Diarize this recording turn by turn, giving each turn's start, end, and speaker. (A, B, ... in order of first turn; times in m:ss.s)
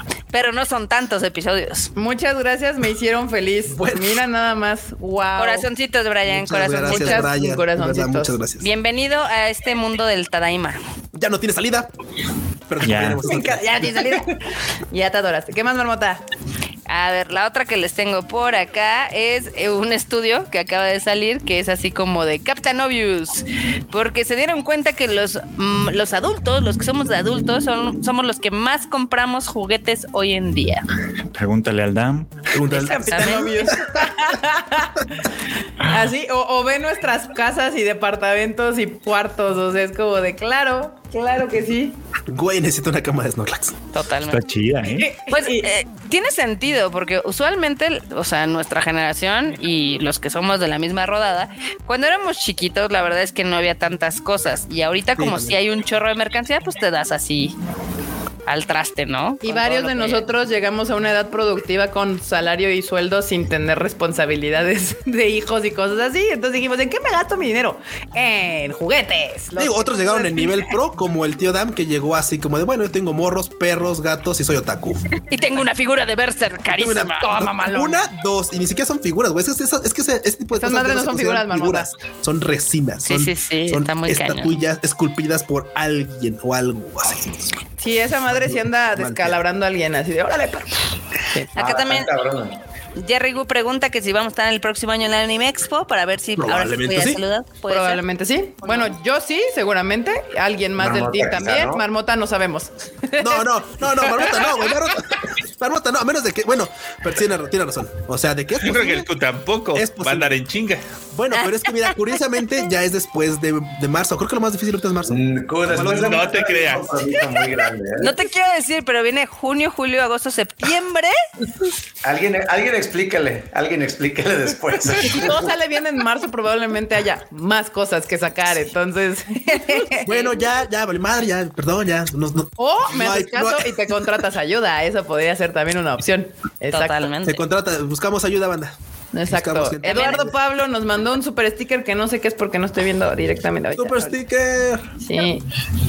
0:00.3-0:01.9 A
0:02.0-0:05.7 B
0:03.7-0:04.2 C
0:05.4-0:07.3 A
0:06.3-0:08.7 C
0:06.9-0:08.4 B
0:08.6-0:10.8 A
0:11.1-0:11.9 C
0:12.7-0:14.0 C
0:12.8-0:13.2 D
0:13.2-0:14.3 A
0:14.9-0:16.2 B
0:16.9-0:30.8 A
0:31.4-0:32.4 D
0:32.5-0:34.1 C
0:32.7-0:33.6 A
0:32.8-0:35.1 B
0:35.8-0:42.0 B
0:42.3-0:43.8 C
0:43.9-0:44.4 A
0:44.3-0:45.1 D
0:44.8-0:45.7 B
0:45.3-0:57.6 A
0:55.2-0:55.6 C
0:58.5-1:00.2 A
0:59.4-1:10.5 B
1:09.6-1:15.0 C
1:15.3-1:18.1 A
1:16.7-1:27.6 C
1:20.5-1:21.9 B
1:23.0-1:24.6 A
1:27.8-1:31.5 B
1:28.3-1:29.4 C
1:31.6-1:32.1 A
1:31.6-1:32.6 E
1:33.0-1:38.0 A
1:36.4-1:37.2 C
1:37.7-1:43.4 B
1:38.6-1:38.9 A
1:40.8-1:41.8 E
1:43.2-1:49.1 C
1:44.1-1:44.5 B
1:48.6-1:50.8 F
1:49.7-1:50.4 C
1:51.1-1:56.4 C
1:51.3-1:51.9 A
1:55.1-1:58.1 E
1:55.8-1:56.9 F
1:58.0-2:01.1 A
2:02.0-2:05.5 E
2:05.0-2:10.1 B
2:10.0-2:14.0 C
2:12.6-2:17.1 B
2:16.7-2:17.4 A
2:17.2-2:18.8 C
2:19.1-2:24.2 B
2:19.3-2:20.2 C
2:19.9-2:20.2 A
2:23.8-2:24.9 C
2:25.0-2:25.5 B